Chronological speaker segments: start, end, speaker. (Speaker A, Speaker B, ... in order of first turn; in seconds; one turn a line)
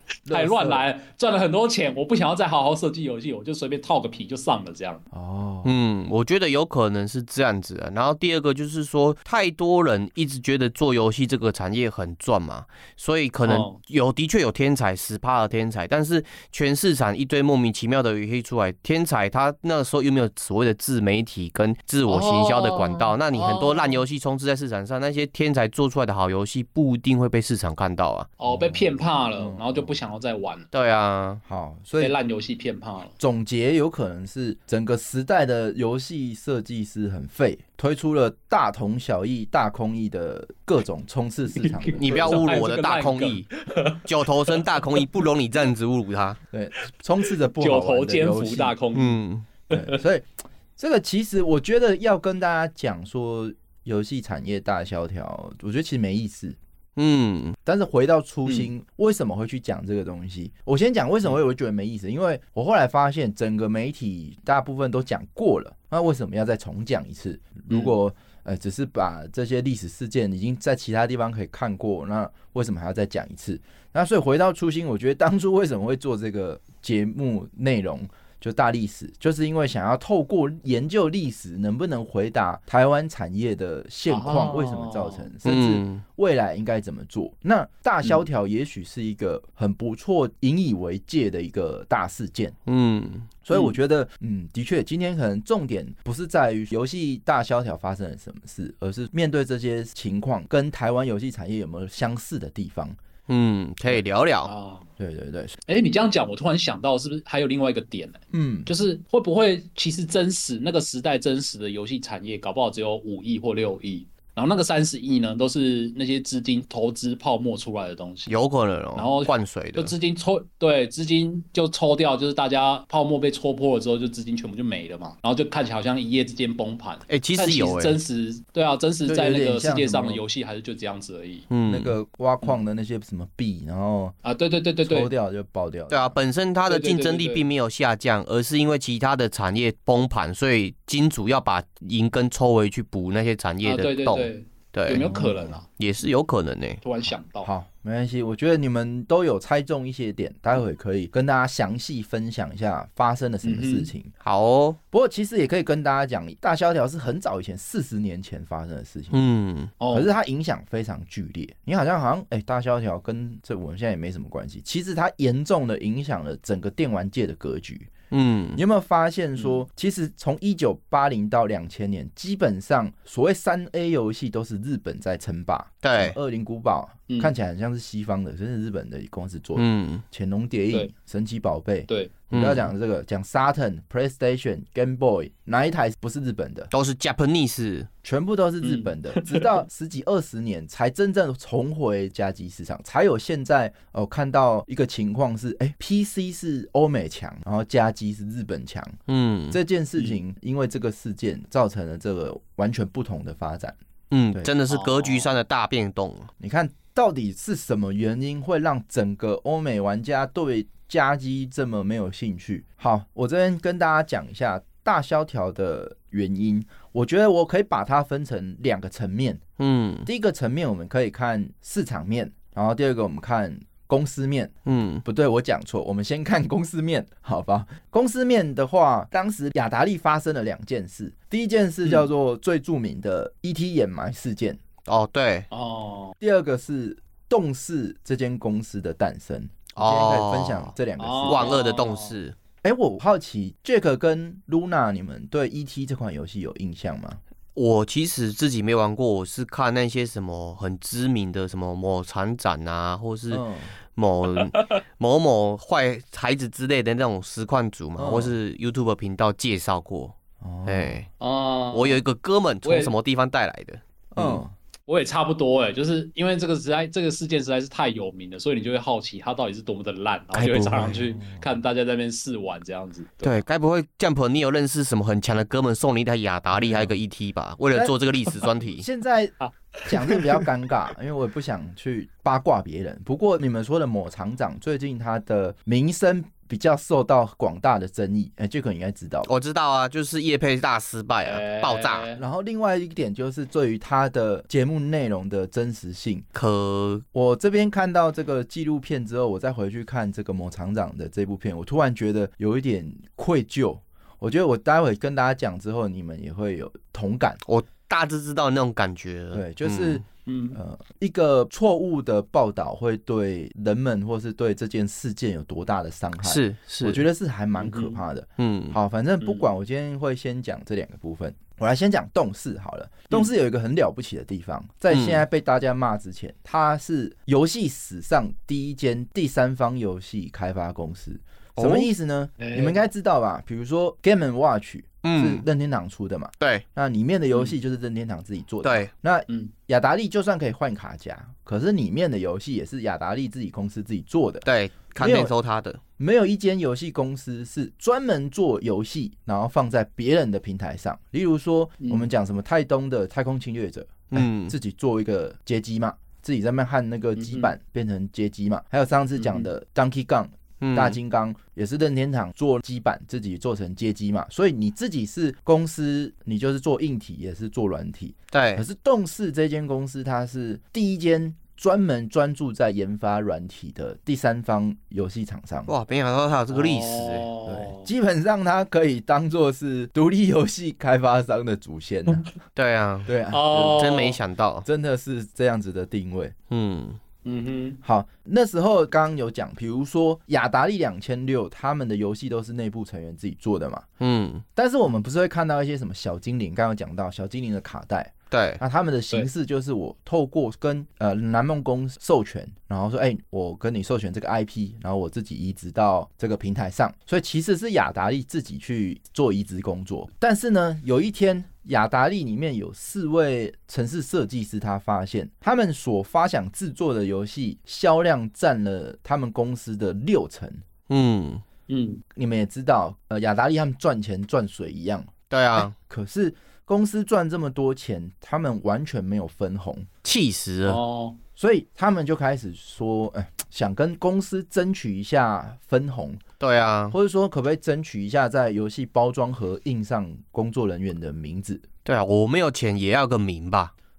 Speaker A: 0.3-0.8
Speaker B: 0.3-5.0
Speaker A: 5.1-5.7
Speaker C: 5.7-28.3
Speaker B: 13.4-13.8
Speaker B: 22.1-24.0
Speaker B: 28.4-30.7
Speaker A: 28.5-30.0
Speaker C: 30.7-31.4
Speaker A: 31.4-32.1
Speaker B: 32.0-33.1
Speaker A: 33.2-42.5
Speaker B: 41.6-45.0
Speaker C: 42.0-43.5
Speaker C: 44.0-46.4
Speaker A: 46.5-48.8
Speaker B: 47.5-50.0
Speaker C: 48.9-49.5
Speaker A: 49.7-56.6
Speaker C: 57.0-57.6
Speaker A: 57.6-92.6
Speaker B: 84.1-85.3
Speaker C: 85.5-86.0
Speaker C: 92.7-93.3
Speaker A: 93.5-103.0
Speaker C: 103.3-104.5
Speaker B: 104.5-104.9
Speaker A: 105.0-105.6
Speaker B: 105.7-118.4
Speaker A: 108.3-108.7
Speaker C: 118.3-119.9
Speaker B: 119.0-131.5
Speaker C: 127.1-128.0
Speaker A: 129.1-130.2
Speaker C: 131.5-132.0
Speaker A: 131.7-134.2
Speaker B: 134.2-135.1
Speaker A: 134.8-136.2
Speaker C: 135.9-145.1
Speaker B: 136.7-137.4
Speaker B: 143.6-145.7
Speaker A: 144.9-145.6
Speaker C: 145.7-146.8
Speaker B: 146.8-147.5
Speaker A: 147.4-154.1
Speaker B: 153.4-153.9
Speaker C: 154.2-154.8
Speaker A: 154.9-159.2
Speaker C: 159.1-159.7
Speaker B: 159.8-160.1
Speaker A: 159.9-167.9
Speaker C: 168.1-168.6
Speaker A: 168.6-186.7
Speaker C: 175.8-176.2
Speaker C: 179.6-180.0
Speaker B: 181.9-182.1
Speaker C: 182.3-182.7
Speaker C: 186.7-187.9
Speaker A: 188.0-199.0
Speaker B: 188.6-189.6
Speaker C: 199.1-199.6
Speaker A: 199.5-203.8
Speaker C: 204.1-206.3
Speaker B: 204.7-205.3
Speaker A: 206.4-219.4
Speaker C: 219.6-220.1
Speaker A: 220.1-224.5
Speaker C: 224.7-225.0
Speaker A: 225.1-234.6
Speaker C: 234.9-235.5
Speaker B: 235.5-236.2
Speaker A: 236.2-241.6
Speaker C: 239.8-240.7
Speaker B: 241.0-242.2
Speaker C: 241.3-242.4
Speaker A: 242.6-247.2
Speaker C: 247.6-261.1
Speaker A: 253.3-253.7
Speaker B: 254.4-254.7
Speaker A: 258.0-258.4
Speaker A: 260.4-261.0
Speaker B: 261.2-262.0
Speaker C: 261.7-264.4
Speaker B: 262.6-262.9
Speaker A: 264.1-264.5
Speaker B: 264.9-273.4
Speaker C: 270.3-271.0
Speaker A: 271.2-271.4
Speaker C: 273.2-278.9
Speaker A: 277.7-278.0
Speaker A: 278.6-279.3
Speaker B: 279.4-280.5
Speaker A: 279.9-289.3
Speaker C: 289.3-292.1
Speaker B: 291.2-292.2
Speaker A: 292.2-296.3
Speaker C: 296.3-297.0
Speaker A: 297.1-307.4
Speaker C: 307.5-310.0
Speaker A: 309.3-345.3
Speaker B: 310.3-310.6
Speaker C: 316.2-317.0
Speaker B: 317.6-318.0
Speaker C: 318.4-318.8
Speaker B: 319.2-319.5
Speaker C: 324.9-325.2
Speaker C: 331.6-331.9
Speaker B: 332.4-332.8
Speaker C: 335.0-335.5
Speaker C: 338.6-338.9
Speaker C: 344.4-345.8
Speaker A: 346.0-375.7
Speaker B: 351.8-352.1
Speaker C: 354.1-354.6
Speaker B: 357.2-357.5
Speaker B: 359.2-359.5
Speaker C: 360.6-361.0
Speaker C: 368.3-368.6
Speaker C: 375.7-377.3
Speaker B: 376.5-377.9
Speaker A: 377.5-382.2
Speaker C: 382.6-384.7
Speaker A: 383.1-383.9
Speaker B: 383.3-384.2
Speaker A: 384.6-386.4
Speaker C: 386.5-387.0
Speaker B: 387.2-387.8
Speaker A: 387.8-393.9
Speaker C: 394.0-394.4
Speaker A: 394.6-420.6
Speaker C: 398.3-398.6
Speaker C: 420.9-421.4
Speaker B: 421.7-422.0
Speaker A: 422.1-429.9
Speaker C: 425.3-425.7
Speaker C: 430.0-430.8
Speaker B: 430.7-431.2
Speaker A: 431.4-436.2
Speaker C: 436.4-437.0
Speaker A: 436.9-441.7
Speaker C: 441.9-443.7